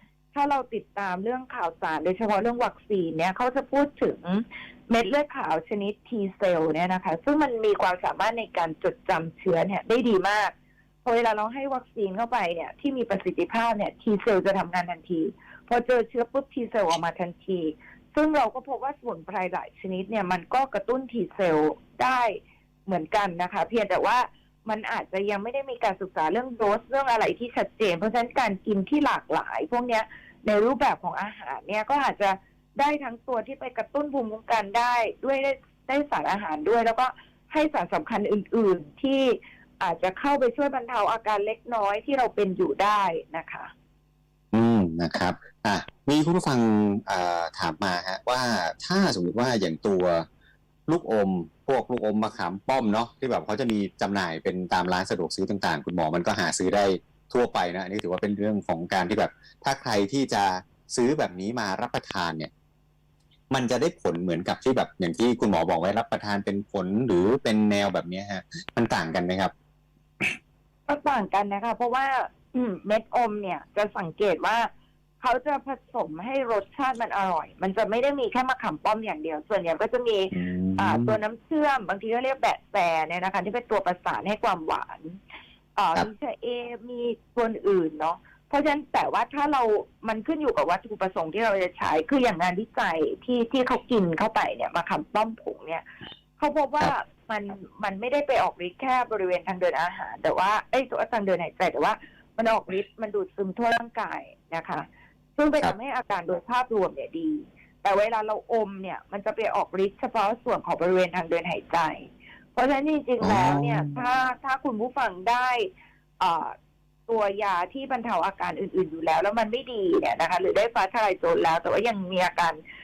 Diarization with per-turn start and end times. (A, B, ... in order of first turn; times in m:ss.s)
0:00.3-0:43.7 A
0:44.5-0:50.2 B
0:50.9-1:02.5 B
1:03.5-1:09.5 B
1:10.9-1:14.7 A
1:15.2-1:25.2 A
1:20.3-1:21.2 B
1:25.8-1:35.8 A
1:36.4-1:44.9 A
1:45.4-1:55.7 A
1:53.2-1:54.0 B
1:56.2-1:56.5 A
1:57.1-2:02.6 A